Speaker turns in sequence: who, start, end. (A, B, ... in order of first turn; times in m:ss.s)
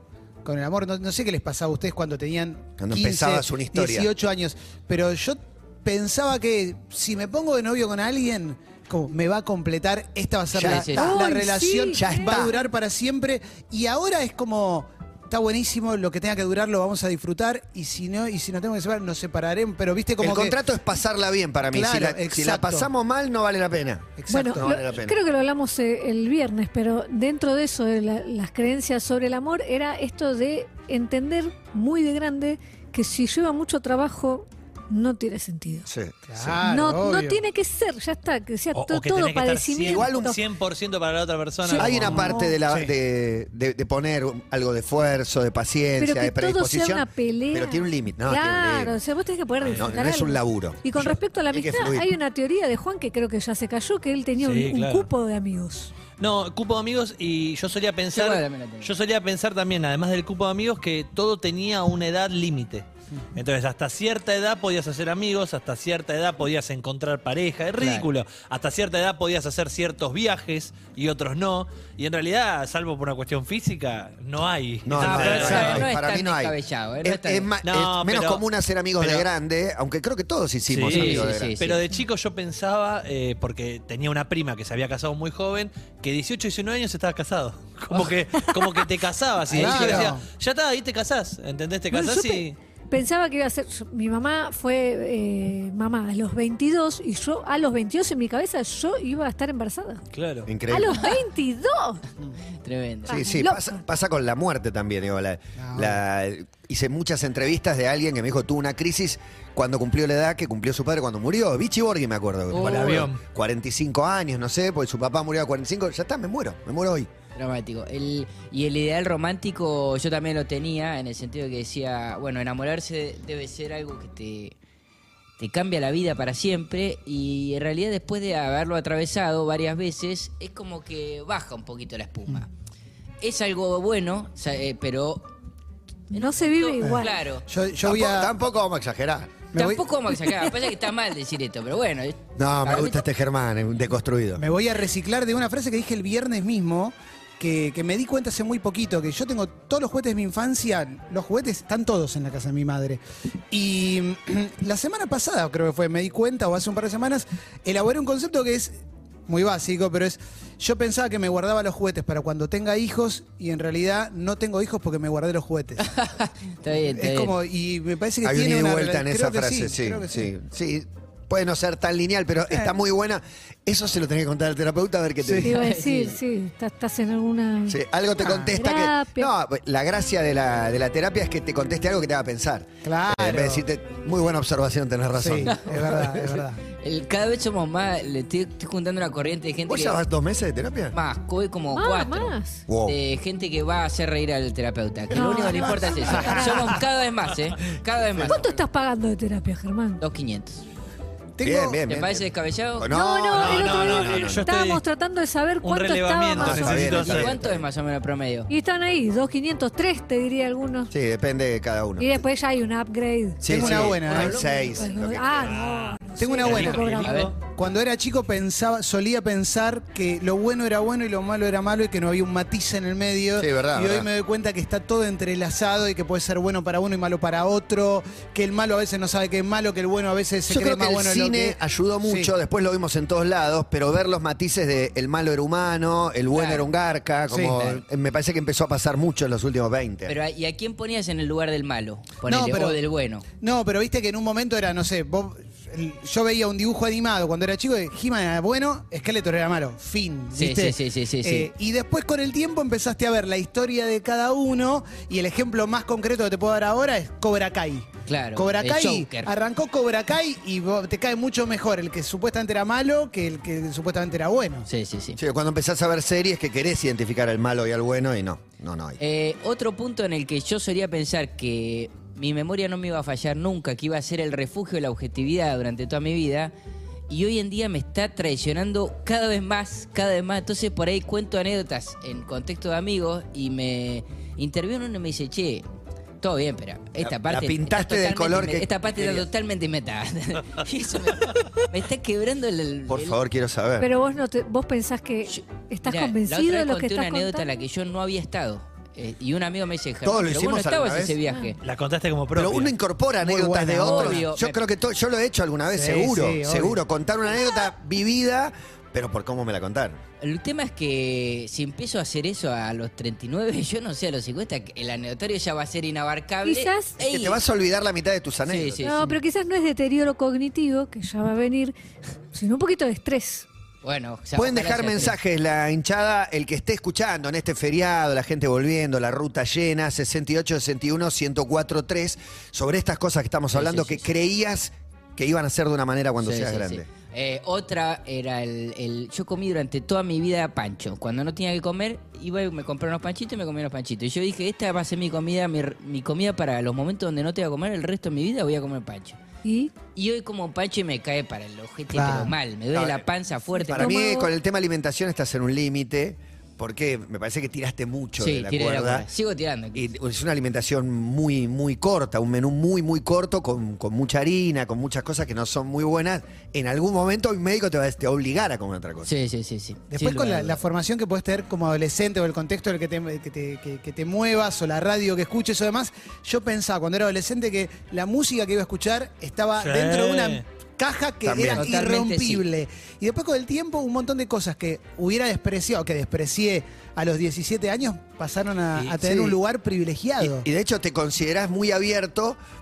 0:00.4-0:20.6 A
0:02.8-0:04.1 B
0:10.5-0:11.1 B
0:10.6-0:11.0 C
0:10.9-0:12.7 D
0:11.9-0:12.5 B
0:20.2-0:25.2 B
0:21.7-0:22.9 A
0:24.2-0:24.6 A
0:24.3-0:35.8 D
0:35.8-0:36.6 B
0:36.3-0:37.4 A
0:36.6-0:40.4 D
0:38.7-0:42.2 E
0:39.8-0:40.4 B
0:41.6-0:42.6 D
0:41.8-0:49.0 B
0:42.0-0:42.9 A
0:46.0-0:55.9 D
0:49.6-0:49.8 E
0:49.7-0:52.1 B
0:54.4-0:55.1 E
0:56.2-1:15.8 E
0:58.1-0:58.9 C
1:07.8-1:08.1 C
1:14.8-1:21.6 B
1:15.0-1:17.5 C
1:17.6-1:18.4 E
1:19.0-1:19.3 E
1:20.7-1:32.6 E
1:20.9-1:21.8 C
1:29.5-1:30.2 A
1:31.9-1:40.0 D
1:40.1-1:40.5 E
1:40.4-1:41.0 B
1:40.7-1:42.0 D
1:42.6-1:43.2 C
1:43.1-1:43.7 D
1:43.1-1:57.1 B
1:45.6-1:46.0 A
1:52.5-1:53.0 C
1:52.5-1:53.2 E
1:57.4-2:04.6 C
2:05.4-2:12.5 C
2:13.2-2:15.3 C
2:16.1-2:17.2 D
2:16.1-2:17.4 C
2:16.8-2:18.3 A
2:17.8-2:19.3 B
2:19.5-2:19.9 A
2:19.5-2:23.0 C
2:22.4-2:24.4 B
2:24.4-2:33.0 A
2:33.5-2:45.9 A
2:45.8-2:47.3 C
2:46.7-2:50.3 A
2:48.2-2:55.5 B
2:55.2-2:55.5 A
2:55.4-2:59.3 D
2:55.5-2:56.2 C
2:57.7-3:06.4 B
2:58.2-2:58.5 A
3:02.8-3:03.6 A
3:05.1-3:06.6 A
3:06.8-3:10.0 C
3:09.7-3:10.9 B
3:10.9-3:18.5 C
3:11.7-3:12.6 D
3:12.7-3:13.0 B
3:15.1-3:16.8 D
3:15.5-3:16.8 A
3:18.2-3:18.5 B
3:18.2-3:20.0 D
3:20.0-3:20.6 C
3:21.4-3:21.8 A
3:21.4-3:24.5 B
3:21.9-3:22.9 C
3:22.9-3:26.6 D
3:23.3-3:24.8 E
3:25.6-3:27.4 E
3:26.4-3:27.4 B
3:26.6-3:28.5 C
3:28.5-3:30.9 D
3:30.9-3:32.2 B
3:32.0-3:33.4 D
3:33.4-3:35.6 B
3:33.4-3:34.5 A
3:33.6-3:34.6 C
3:34.2-3:37.3 D
3:35.4-3:37.4 E
3:36.2-3:36.8 A
3:37.0-3:37.3 C
3:37.4-3:52.3 A
3:43.4-3:44.1 B
3:50.5-4:00.1 B
3:56.3-3:56.7 C
3:57.3-3:57.6 A
3:57.5-3:57.8 C
4:00.0-4:03.2 C
4:02.3-4:02.8 A
4:03.4-4:24.7 A
4:10.3-4:11.5 C
4:18.1-4:19.3 C
4:24.6-4:25.2 C
4:25.2-4:29.0 B
4:29.0-4:36.5 C
4:37.1-4:45.6 C
4:46.2-4:53.2 C
4:47.0-4:49.2 B
4:52.9-4:53.9 B
4:53.8-4:57.5 D
4:55.2-5:01.6 C
5:00.0-5:01.2 B
5:01.2-5:01.5 D
5:01.6-5:02.7 E
5:02.3-5:10.0 B
5:03.2-5:04.3 A
5:03.8-5:04.6 C
5:05.7-5:06.8 A
5:10.2-5:17.4 C
5:16.4-5:17.0 D
5:17.0-5:18.8 B
5:18.4-5:19.2 C
5:18.8-5:21.8 D
5:22.3-5:23.4 D
5:23.8-5:25.2 C
5:24.3-5:36.9 B
5:33.5-5:34.1 C
5:36.2-5:49.2 C
5:49.4-5:49.7 D
5:49.9-5:54.0 C
5:51.9-5:52.3 A
5:52.7-5:53.0 B
5:53.6-5:54.3 D
5:53.7-5:59.1 B
5:58.2-5:59.9 C
5:59.7-6:09.1 B
6:09.0-6:10.6 C
6:09.9-6:30.5 A
6:19.6-6:20.4 E
6:21.2-6:21.6 B
6:21.5-6:22.4 C
6:30.2-6:32.4 B